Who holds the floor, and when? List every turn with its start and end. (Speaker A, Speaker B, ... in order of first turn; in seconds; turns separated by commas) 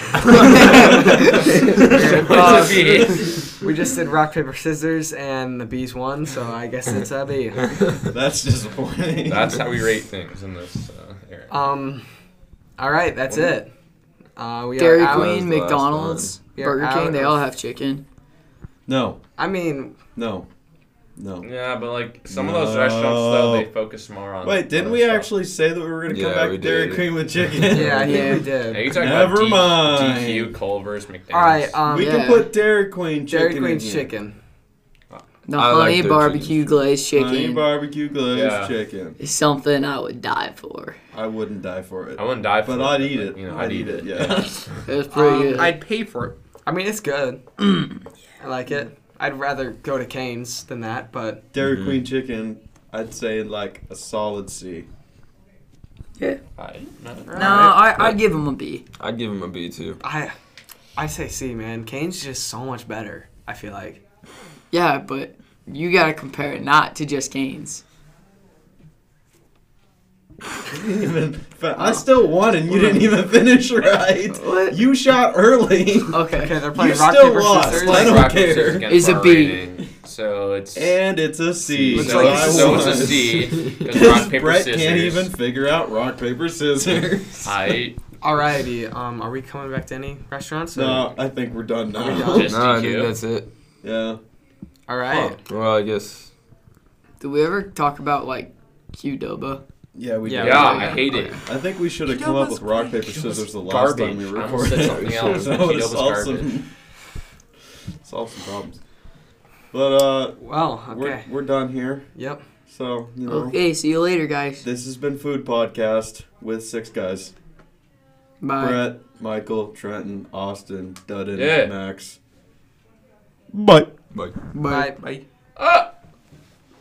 Speaker A: 0.3-1.8, Speaker B: 0.3-3.1, Speaker C: 1.9-7.7, Speaker D: 1.9-3.6, Speaker B: 8.0-9.6, Speaker D: 9.2-11.7, Speaker C: 11.5-12.1, Speaker C: 12.8-13.7, Speaker D: 13.3-13.6, Speaker C: 14.3-15.3, Speaker A: 14.7-18.0, Speaker E: 15.1-16.4, Speaker C: 16.4-17.4, Speaker B: 18.9-19.2, Speaker C: 19.4-19.9, Speaker B: 20.1-20.4, Speaker B: 21.2-21.5, Speaker D: 21.4-25.3, Speaker B: 22.3-23.7, Speaker B: 24.4-30.6, Speaker E: 26.1-27.1, Speaker C: 27.7-28.9, Speaker A: 27.9-28.5, Speaker D: 28.7-31.8, Speaker C: 31.3-32.1, Speaker B: 31.9-34.1, Speaker A: 31.9-32.5, Speaker C: 33.3-34.4, Speaker A: 35.5-37.7, Speaker E: 35.5-36.6, Speaker B: 37.1-39.2, Speaker D: 38.3-38.8, Speaker A: 39.2-41.0, Speaker B: 41.1-44.7, Speaker D: 42.2-44.8, Speaker A: 44.8-45.8, Speaker C: 45.1-45.8, Speaker F: 45.2-46.4, Speaker C: 46.6-47.7, Speaker C: 48.4-51.4, Speaker B: 51.5-54.9, Speaker E: 51.6-52.0, Speaker D: 56.5-57.7, Speaker A: 57.3-58.8, Speaker E: 57.9-58.2, Speaker E: 59.0-60.0, Speaker C: 60.0-60.3, Speaker C: 61.0-64.0, Speaker A: 64.7-67.8, Speaker B: 70.7-78.9, Speaker A: 71.8-72.0, Speaker A: 72.7-73.0, Speaker A: 74.3-74.8, Speaker A: 76.1-76.5, Speaker C: 76.3-78.3, Speaker D: 77.6-81.1, Speaker A: 78.8-79.6, Speaker B: 80.7-87.5, Speaker D: 81.7-85.3, Speaker C: 81.9-83.2, Speaker E: 83.5-84.1, Speaker D: 87.4-88.0, Speaker C: 88.2-91.1, Speaker B: 90.7-92.5, Speaker C: 92.0-92.5, Speaker D: 92.1-93.2, Speaker E: 92.5-93.5, Speaker B: 93.8-94.2, Speaker C: 94.9-95.4, Speaker E: 95.4-96.3, Speaker A: 97.2-99.6, Speaker B: 99.9-106.7, Speaker C: 100.2-101.3, Speaker D: 100.4-101.4, Speaker F: 102.1-103.0, Speaker D: 103.1-106.6, Speaker E: 104.8-105.5, Speaker B: 108.0-108.8, Speaker B: 109.7-112.1, Speaker C: 110.4-111.2, Speaker C: 112.1-112.4, Speaker B: 112.7-113.6, Speaker A: 113.2-114.6, Speaker B: 114.6-117.3, Speaker A: 118.4-118.8, Speaker B: 118.6-122.2, Speaker D: 121.3-121.8, Speaker B: 123.5-123.9, Speaker E: 124.1-124.4, Speaker A: 124.5-125.0, Speaker C: 124.6-125.0, Speaker F: 125.0-125.2, Speaker D: 125.5-125.9